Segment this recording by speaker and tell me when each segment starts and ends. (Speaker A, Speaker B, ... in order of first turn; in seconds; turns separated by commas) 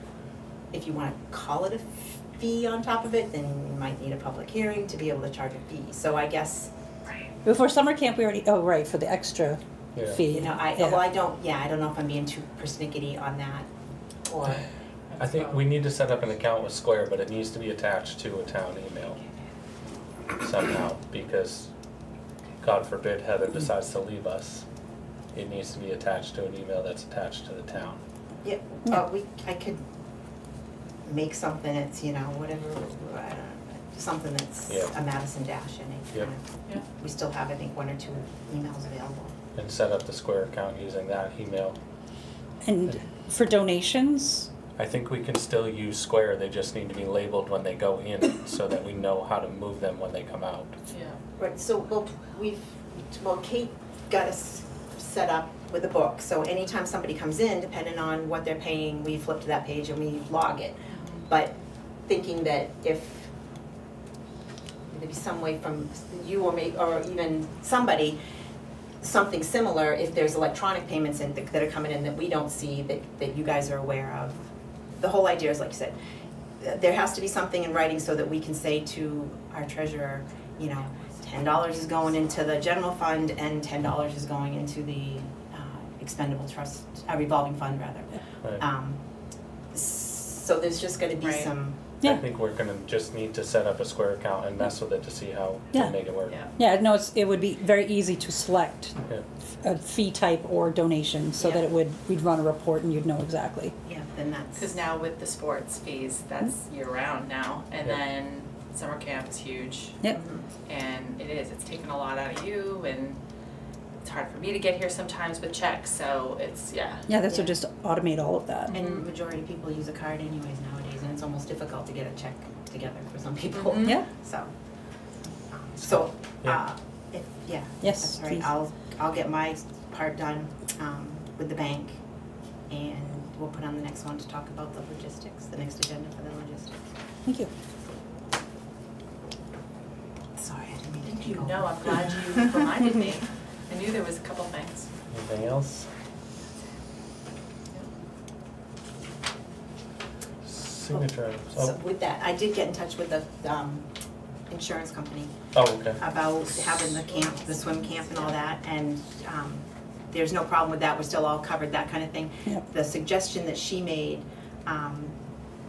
Speaker A: 0.7-6.7, Speaker B: 7.4-11.0, Speaker C: 9.9-10.2, Speaker A: 10.3-13.7, Speaker A: 14.3-14.7, Speaker C: 15.2-19.2, Speaker C: 20.4-21.7, Speaker C: 22.6-24.6, Speaker C: 25.3-28.0, Speaker A: 28.4-29.8, Speaker A: 31.1-39.3, Speaker C: 39.5-41.8, Speaker B: 42.6-44.5, Speaker C: 44.8-50.8, Speaker D: 50.9-51.2, Speaker A: 51.4-61.5, Speaker D: 60.9-61.2, Speaker A: 62.1-63.3, Speaker A: 64.9-68.2, Speaker A: 69.0-76.0, Speaker A: 76.6-89.0, Speaker A: 89.7-91.8, Speaker D: 91.2-91.5, Speaker C: 92.0-96.4, Speaker B: 96.5-99.0, Speaker B: 99.6-103.7, Speaker A: 103.8-104.7, Speaker D: 104.6-110.0, Speaker A: 110.1-110.5, Speaker D: 110.7-113.2, Speaker D: 114.0-117.1, Speaker B: 117.1-118.7, Speaker D: 118.7-119.0, Speaker A: 118.7-124.5, Speaker D: 123.5-124.0, Speaker A: 125.5-132.0, Speaker B: 127.8-128.5, Speaker A: 132.7-136.8, Speaker B: 137.2-137.5, Speaker A: 140.4-142.6, Speaker D: 141.2-144.9, Speaker C: 145.1-145.9, Speaker C: 150.4-151.8, Speaker A: 151.6-153.9, Speaker A: 154.5-155.3, Speaker C: 155.5-156.0, Speaker A: 156.0-165.1